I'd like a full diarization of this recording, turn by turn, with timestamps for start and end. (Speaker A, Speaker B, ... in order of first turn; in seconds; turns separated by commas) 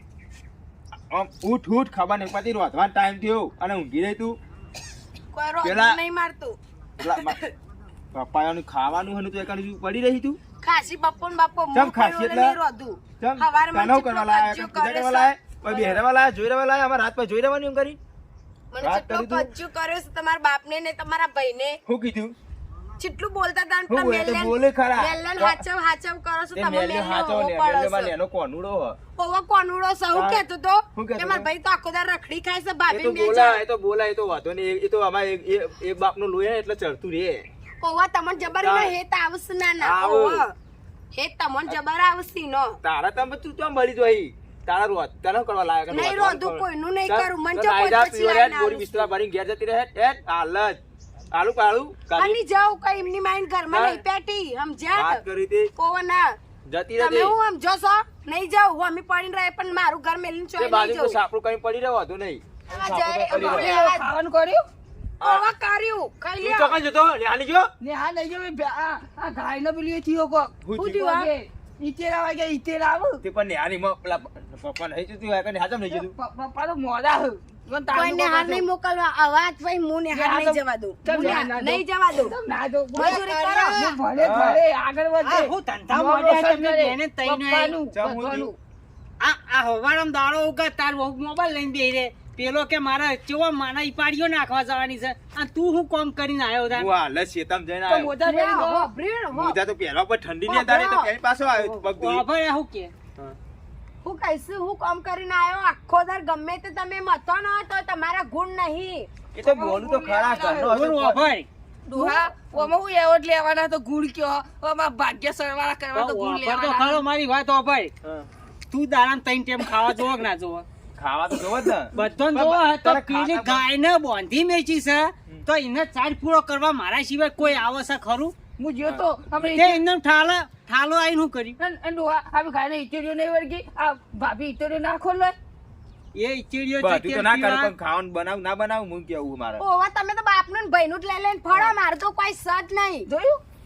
Speaker A: 1.1-4.4, Speaker B: 5.3-7.5, Speaker A: 5.6-6.0, Speaker A: 7.0-7.4, Speaker A: 8.1-10.4, Speaker B: 10.6-16.0, Speaker A: 11.7-12.6, Speaker A: 13.2-18.0, Speaker B: 18.7-21.8, Speaker A: 18.8-19.5, Speaker A: 21.9-22.4, Speaker B: 23.0-28.1, Speaker A: 23.9-25.6, Speaker A: 26.5-29.0, Speaker B: 29.2-33.6, Speaker A: 30.1-31.5, Speaker A: 32.9-37.5, Speaker B: 37.8-40.5, Speaker A: 38.6-39.0, Speaker A: 39.8-40.4, Speaker B: 41.1-42.8, Speaker A: 42.8-50.8, Speaker B: 45.9-49.1, Speaker A: 51.3-52.4, Speaker B: 52.1-55.2, Speaker A: 53.7-54.0, Speaker A: 54.9-55.7, Speaker B: 55.8-56.4, Speaker A: 56.7-57.4, Speaker B: 57.0-61.2, Speaker A: 60.6-63.8, Speaker B: 62.7-64.0, Speaker C: 63.3-64.6, Speaker A: 65.2-65.5, Speaker B: 65.2-66.8, Speaker A: 66.4-67.7, Speaker C: 67.8-73.2, Speaker A: 70.6-71.0, Speaker B: 70.8-71.3, Speaker A: 73.2-76.1, Speaker C: 75.9-78.6, Speaker B: 77.9-82.3, Speaker C: 80.1-88.5, Speaker B: 83.0-84.0, Speaker D: 83.0-83.9, Speaker A: 84.2-84.6, Speaker D: 85.2-87.8, Speaker A: 87.9-88.5, Speaker D: 89.2-96.9, Speaker A: 96.7-98.1, Speaker C: 97.9-98.9, Speaker B: 98.2-99.6, Speaker A: 99.3-102.2, Speaker B: 100.5-101.1, Speaker D: 101.5-102.9, Speaker B: 104.0-109.1, Speaker A: 109.3-111.2, Speaker C: 109.4-110.8, Speaker D: 110.7-112.7, Speaker C: 111.8-117.0, Speaker D: 115.9-117.9, Speaker D: 118.7-120.7, Speaker A: 121.0-123.6, Speaker D: 121.9-128.3, Speaker C: 128.6-129.8, Speaker D: 129.4-131.6, Speaker C: 131.6-135.3, Speaker D: 136.2-137.7, Speaker A: 136.8-139.6, Speaker B: 139.6-143.1, Speaker C: 143.1-143.4